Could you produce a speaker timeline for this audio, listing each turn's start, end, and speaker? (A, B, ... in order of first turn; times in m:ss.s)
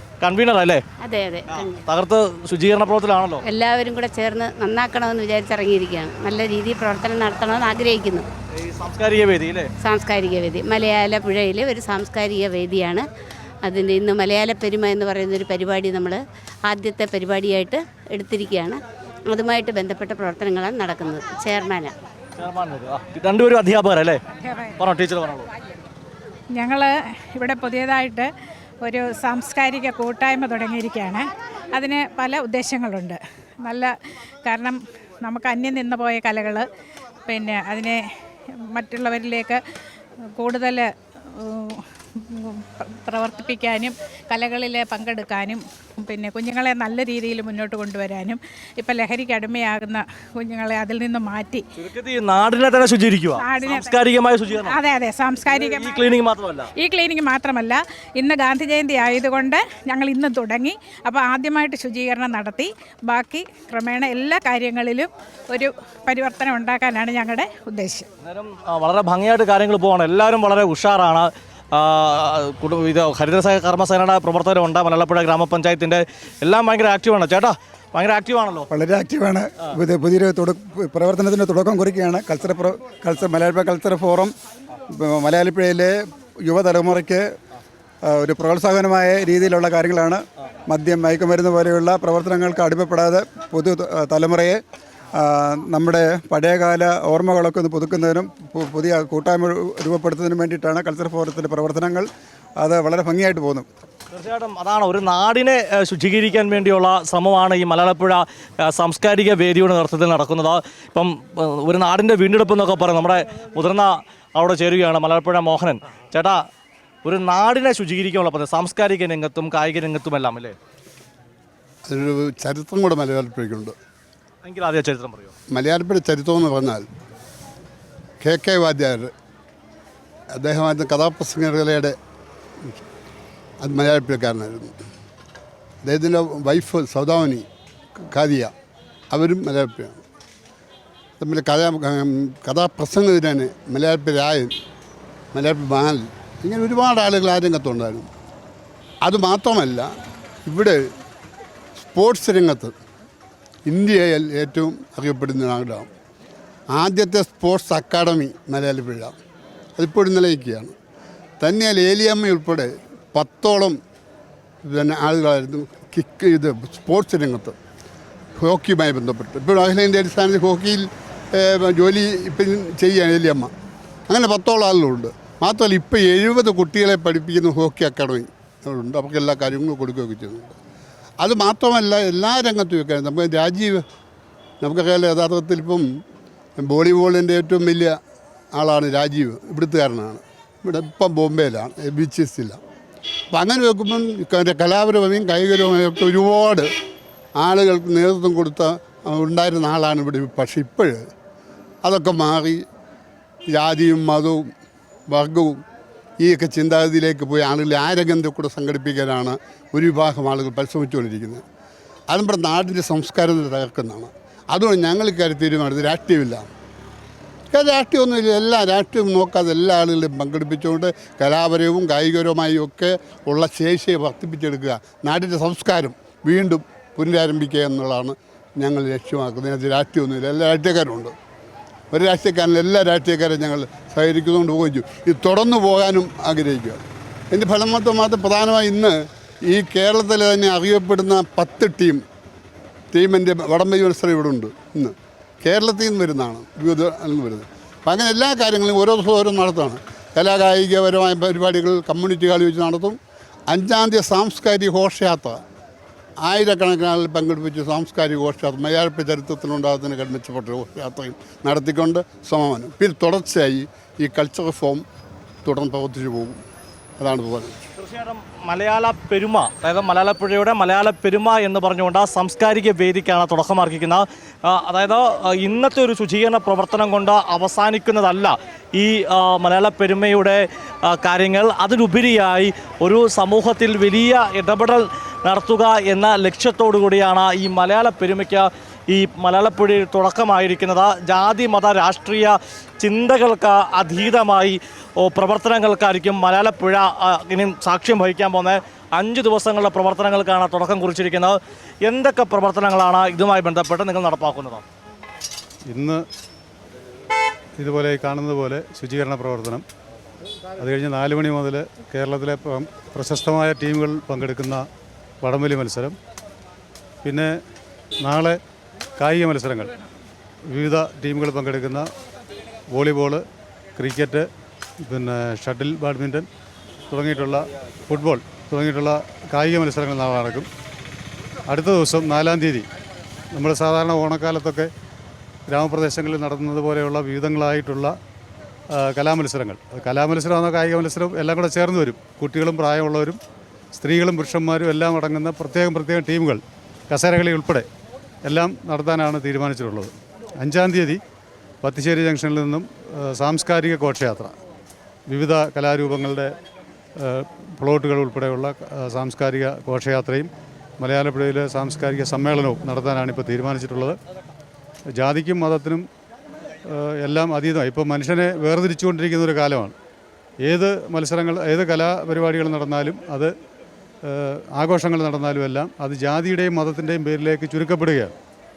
0:00.2-0:00.8 A
0:01.0-0:01.8 B
0:01.6-0:03.4 A
0:03.4-0:08.3 B
0:08.6-0:09.7 A
0:09.8-0:13.1 B
0:13.6-0:21.9 B
0:22.4-0:24.2 A
0:24.4-0:24.8 C
0:24.8-0:25.5 A
0:26.5-0:28.3 C
0:28.8-0:33.9 C
0:34.4-0:36.6 C
0:37.2-0:38.0 C
0:38.7-0:39.6 C
0:40.4-0:51.6 C
0:51.8-0:54.8 A
0:53.4-0:54.0 C
0:54.6-0:56.1 C
0:55.5-0:56.7 A
0:56.8-1:08.1 C
1:08.2-1:18.7 A
1:18.7-1:24.3 D
1:24.9-1:27.2 D
1:28.0-1:34.6 D
1:35.2-1:42.1 D
1:42.6-1:43.7 D
1:44.1-1:56.4 A
1:57.0-2:00.6 A
2:01.8-2:03.7 E
2:04.4-2:05.3 A
2:05.5-2:06.8 E
2:08.2-2:09.1 E
2:10.3-2:11.9 E
2:13.6-2:14.7 E
2:15.8-2:17.4 E
2:18.0-2:18.5 E
2:19.1-2:20.0 E
2:21.2-2:24.5 E
2:25.3-2:28.1 E
2:29.0-2:29.9 E
2:30.4-2:30.8 E
2:31.8-2:32.7 E
2:33.7-2:35.9 E
2:36.7-2:39.1 E
2:39.8-2:40.7 E
2:41.4-2:43.7 E
2:44.6-2:47.5 E
2:48.4-2:53.5 E
2:54.1-3:00.6 E
3:01.2-3:03.8 E
3:04.6-3:05.8 E
3:06.6-3:07.9 E
3:08.5-3:12.6 E
3:13.3-3:16.7 E
3:17.4-3:21.0 E
3:21.8-3:22.6 E
3:23.5-3:24.5 E
3:25.1-3:25.6 E
3:26.2-3:31.4 E
3:32.1-3:36.5 E
3:37.5-3:51.1 E
3:51.9-4:02.0 E
4:02.9-4:13.0 E
4:13.5-4:15.4 E
4:16.2-4:24.8 E
4:25.4-4:26.4 E
4:27.0-4:27.5 E
4:27.8-5:04.6 A
5:05.6-5:06.0 F
5:07.6-5:09.6 F
5:10.6-5:14.6 F
5:15.2-5:16.0 F
5:17.0-5:17.3 F
5:18.0-5:18.4 F
5:19.0-5:19.7 F
5:20.5-5:21.9 F
5:22.7-5:23.2 F
5:23.8-5:24.2 F
5:24.8-5:26.3 F
5:26.9-5:30.5 F
5:31.5-5:32.7 F
5:33.3-5:34.7 F
5:35.5-5:38.0 F
5:38.7-5:43.2 F
5:43.7-5:47.7 F
5:48.2-5:51.0 F
5:51.6-5:54.3 F
5:55.1-5:56.4 F
5:57.0-6:04.0 F
6:05.0-6:05.8 F
6:06.6-6:09.7 F
6:10.4-6:13.3 F
6:14.0-6:18.1 F